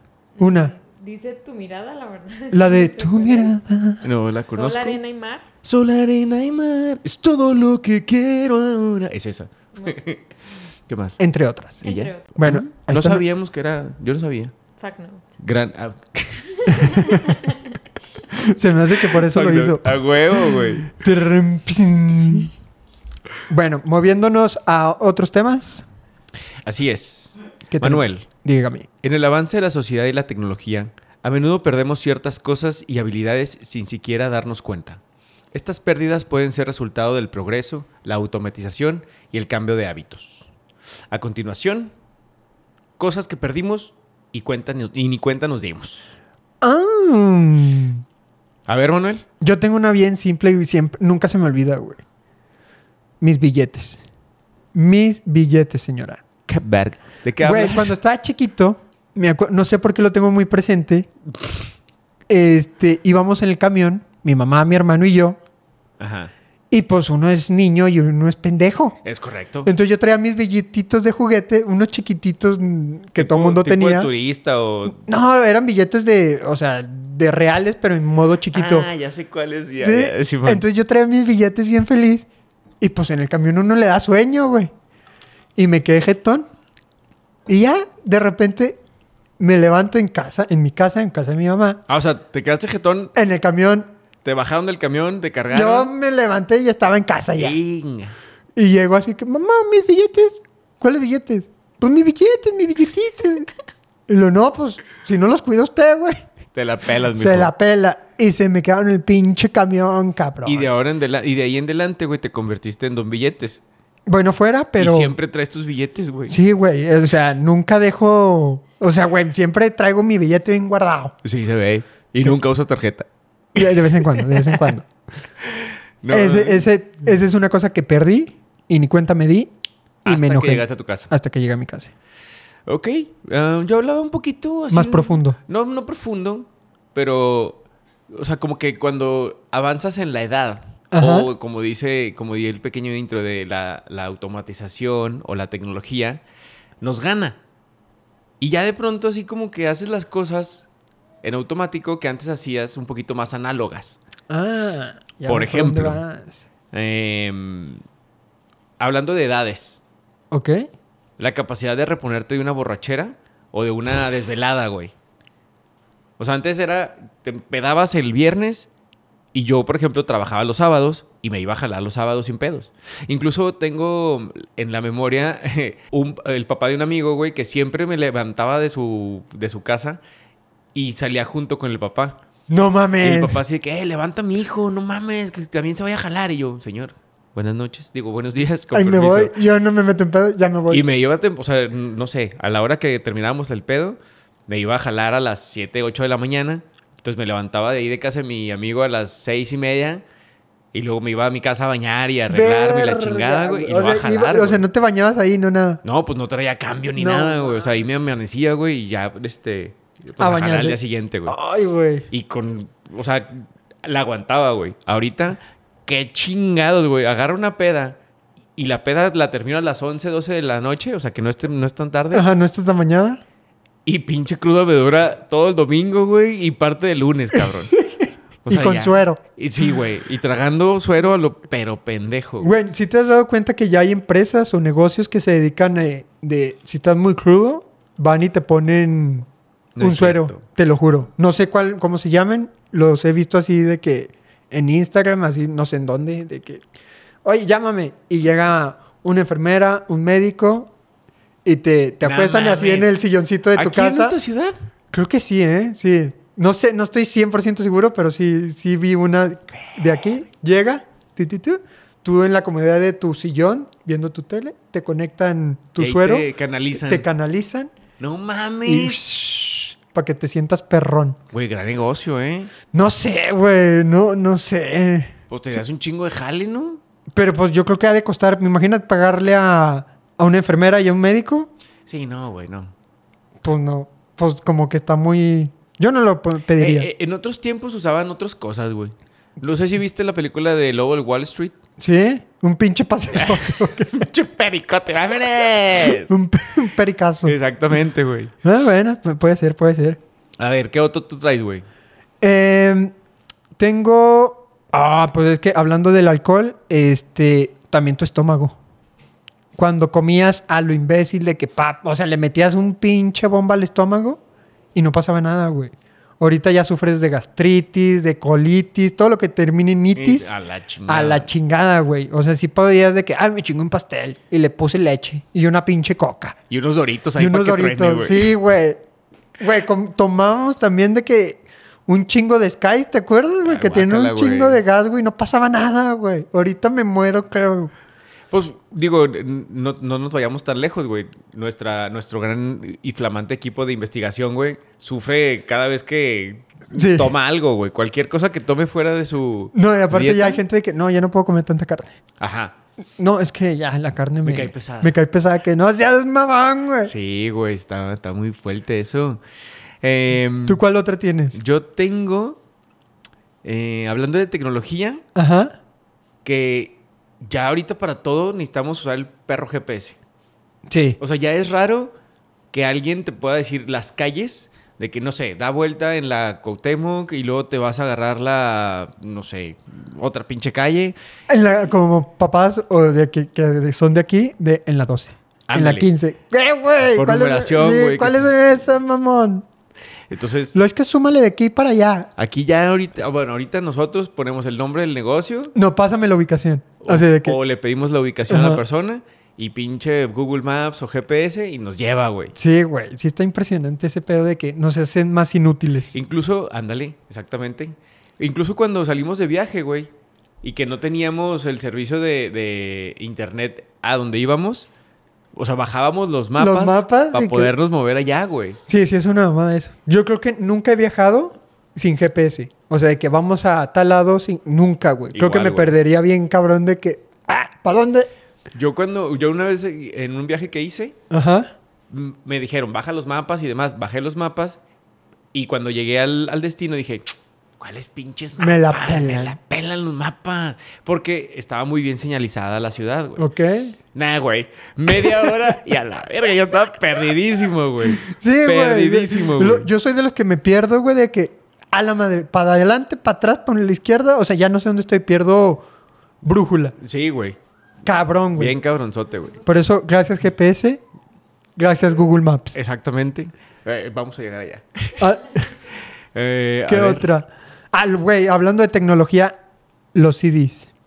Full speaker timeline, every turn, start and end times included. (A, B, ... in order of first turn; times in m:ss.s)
0:00.4-0:03.5 A
0:00.4-0:00.7 B
0:02.5-0:04.0 B
0:04.0-0:05.0 C
0:04.5-0:05.5 A
0:05.6-0:10.2 C
0:09.8-0:10.0 A
0:10.9-0:11.2 C
0:11.2-0:13.2 B
0:11.8-0:14.5 C
0:11.8-0:12.5 A
0:14.8-0:15.4 A
0:15.4-0:17.0 C
0:16.6-0:17.8 A
0:18.3-0:22.5 B
0:19.1-0:20.9 C
0:23.5-0:25.9 B
0:26.6-0:28.3 C
0:27.7-0:28.9 B
0:29.0-0:35.0 C
0:35.5-0:40.5 C
0:41.1-0:41.9 C
0:43.0-0:46.1 C
0:46.6-0:48.0 B
0:48.7-0:49.2 C
0:49.4-0:52.0 B
0:53.2-0:54.0 B
0:54.7-0:56.2 B
0:56.5-0:58.0 C
0:57.4-1:01.1 B
1:02.3-1:05.4 B
1:06.0-1:06.3 C
1:06.7-1:09.0 B
1:09.0-1:09.7 C
1:09.6-1:14.1 B
1:13.2-1:15.0 C
1:14.9-1:18.9 B
1:18.5-1:20.6 C
1:19.8-1:22.3 B
1:22.8-1:24.7 B
1:25.6-1:26.5 B
1:27.5-1:28.8 B
1:29.4-1:31.8 B
1:31.9-1:33.1 C
1:33.2-1:33.9 B
1:34.2-1:35.9 C
1:35.5-1:37.6 B
1:37.4-1:38.2 C
1:38.6-1:43.5 B
1:44.1-1:46.2 B
1:46.5-1:47.5 C
1:47.1-1:50.7 B
1:50.4-1:53.6 C
1:54.1-1:55.1 B
1:54.8-1:56.4 C
1:56.3-2:01.2 B
2:01.2-2:04.6 C
2:03.6-2:04.9 B
2:05.4-2:06.7 C
2:06.1-2:09.5 B
2:10.0-2:11.1 C
2:10.0-2:11.9 B
2:12.7-2:26.2 C
2:14.7-2:15.4 B
2:20.9-2:21.3 B
2:26.8-2:27.4 C
2:28.4-2:30.7 C
2:31.2-2:34.0 C
2:34.3-2:36.5 B
2:35.3-2:36.0 C
2:36.7-2:37.8 C
2:38.8-2:39.8 C
2:40.3-2:40.7 B
2:41.2-2:44.9 C
2:46.2-2:48.7 C
2:49.3-3:00.0 C
3:00.7-3:02.2 C
3:02.5-3:03.4 B
3:03.0-3:09.4 C
3:08.7-3:10.8 B
3:10.7-3:20.0 C
3:20.7-3:24.6 C
3:22.3-3:25.8 B
3:25.8-3:31.4 C
3:27.0-3:27.7 B
3:30.2-3:32.1 B
3:32.1-3:38.0 C
3:38.6-3:42.3 C
3:42.1-3:43.2 B
3:43.9-3:47.8 C
3:47.7-3:49.2 B
3:48.4-3:52.5 C
3:52.4-3:59.3 B
3:59.8-4:00.4 C
3:59.8-4:06.6 B
4:07.2-4:10.7 B
4:11.4-4:14.2 B
4:12.0-4:12.9 C
4:13.6-4:14.6 C
4:14.9-4:27.7 B
4:25.8-4:27.1 C
4:28.0-4:29.0 C
4:28.6-4:31.2 B
4:31.3-4:32.5 C
4:32.7-4:35.6 B
4:35.3-4:36.8 C
4:37.1-4:41.5 B
4:41.9-4:42.7 C
4:43.4-4:46.9 B
4:46.6-4:51.6 C
4:51.8-4:54.1 B
4:53.2-4:56.1 C
4:55.8-4:57.4 B
4:57.2-4:58.3 C
4:58.4-5:00.0 B
5:00.4-5:01.6 C
5:02.2-5:02.9 B
5:03.6-5:08.6 B
5:09.6-5:14.2 B
5:14.7-5:20.3 B
5:20.0-5:21.3 C
5:20.9-5:26.4 B
5:26.5-5:28.3 C
5:27.2-5:28.8 B
5:29.4-5:37.7 B
5:33.4-5:34.6 C
5:38.3-5:50.4 C
5:46.7-5:47.1 B
5:49.5-5:52.0 B
5:52.2-5:52.6 C
5:53.0-5:56.9 B
5:54.2-5:55.0 C
5:56.8-5:59.2 C
5:59.8-6:00.6 C
6:00.5-6:01.4 B
6:01.3-6:02.4 C
6:03.4-6:05.0 C
6:05.2-6:05.6 B
6:06.2-6:10.0 C
6:10.7-6:11.0 B
6:11.0-6:11.9 C
6:12.5-6:21.0 C
6:21.3-6:29.5 B
6:25.5-6:25.9 C
6:26.9-6:28.6 C
6:30.1-6:30.6 C
6:30.5-6:32.1 B
6:32.2-6:35.5 C
6:35.6-6:37.4 B
6:36.8-6:42.4 C
6:38.3-6:38.6 B
6:42.4-6:46.0 B
6:45.9-6:49.9 C
6:50.4-6:54.7 C
6:55.4-6:58.6 C
6:56.4-6:57.5 B
6:58.7-7:08.1 B
7:05.1-7:05.8 C
7:08.5-7:11.0 C
7:11.1-7:11.5 B
7:11.9-7:14.6 C
7:15.3-7:23.3 C
7:18.4-7:19.4 B
7:23.2-7:23.8 B
7:23.9-7:29.7 C
7:24.9-7:25.4 B
7:27.9-7:35.6 B
7:36.2-7:36.8 B
7:36.8-7:37.4 C
7:37.8-7:38.6 B
7:38.4-7:39.4 C
7:39.4-7:40.8 B
7:41.6-7:42.6 B
7:42.5-7:45.1 C
7:45.0-7:45.4 B
7:46.2-7:47.1 C
7:46.7-7:49.4 B
7:49.9-7:50.7 B